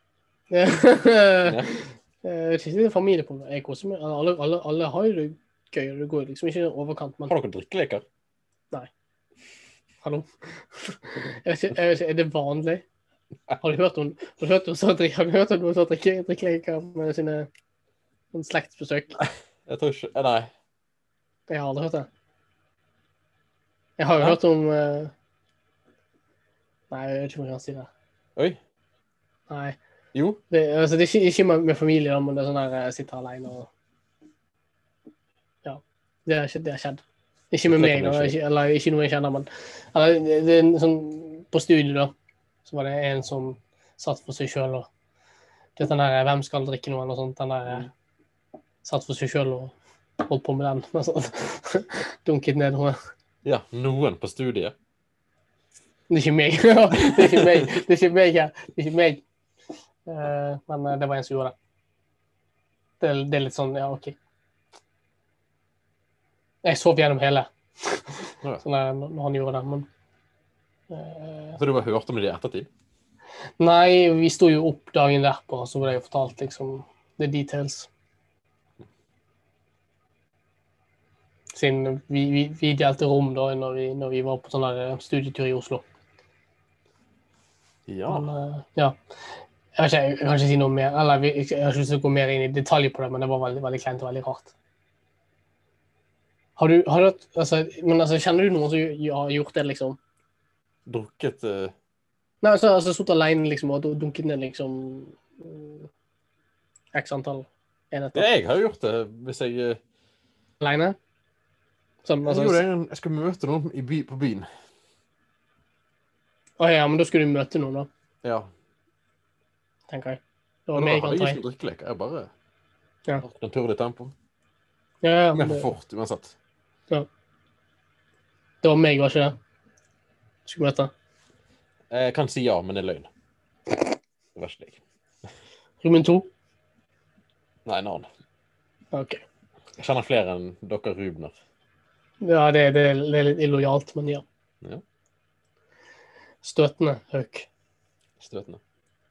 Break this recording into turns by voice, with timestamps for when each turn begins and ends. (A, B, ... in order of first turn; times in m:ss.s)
0:00.5-0:07.3 A
0:01.4-0:01.7 B
0:07.3-0:08.0 B
0:10.0-0:12.8 A
0:13.6-0:17.5 A
0:18.3-0:19.2 A
0:19.2-0:20.5 B
0:21.5-0:22.1 A
0:24.0-0:25.1 A
0:26.9-0:27.9 A
0:29.5-0:29.8 A
0:30.1-0:30.4 B
0:30.5-0:33.7 A
0:35.6-0:42.1 A
0:37.7-0:38.4 B
0:42.6-0:44.9 A
0:45.8-0:47.9 A
0:48.8-0:53.0 A
0:53.4-0:54.7 B
0:56.1-0:59.2 A
0:56.9-0:57.8 B
1:00.0-1:01.5 A
1:03.0-1:04.2 A
1:06.6-1:09.9 A
1:10.9-1:11.6 A
1:11.6-1:12.7 B
1:13.6-1:17.9 A
1:21.5-1:25.8 A
1:27.9-1:28.3 B
1:28.1-1:29.0 A
1:29.8-1:34.5 A
1:36.6-1:40.0 A
1:40.9-1:41.7 B
1:42.4-1:45.9 A
1:46.9-1:48.3 A
1:48.1-1:49.8 B
1:50.6-1:51.0 A
1:52.0-1:52.6 A
1:52.2-1:54.5 B
1:56.6-1:57.9 A
1:58.2-1:58.5 B
1:59.9-2:01.4 A
2:00.7-2:02.3 B
2:03.2-2:04.1 B
2:05.0-2:05.7 A
2:05.3-2:06.3 B
2:08.6-2:09.4 A
2:10.4-2:10.9 A
2:11.9-2:13.1 B
2:14.3-2:14.8 B
2:15.8-2:16.3 A
2:17.6-2:18.1 B
2:18.9-2:19.2 A
2:19.8-2:21.3 B
2:22.2-2:24.2 A
2:26.4-2:27.5 A
2:28.2-2:28.6 B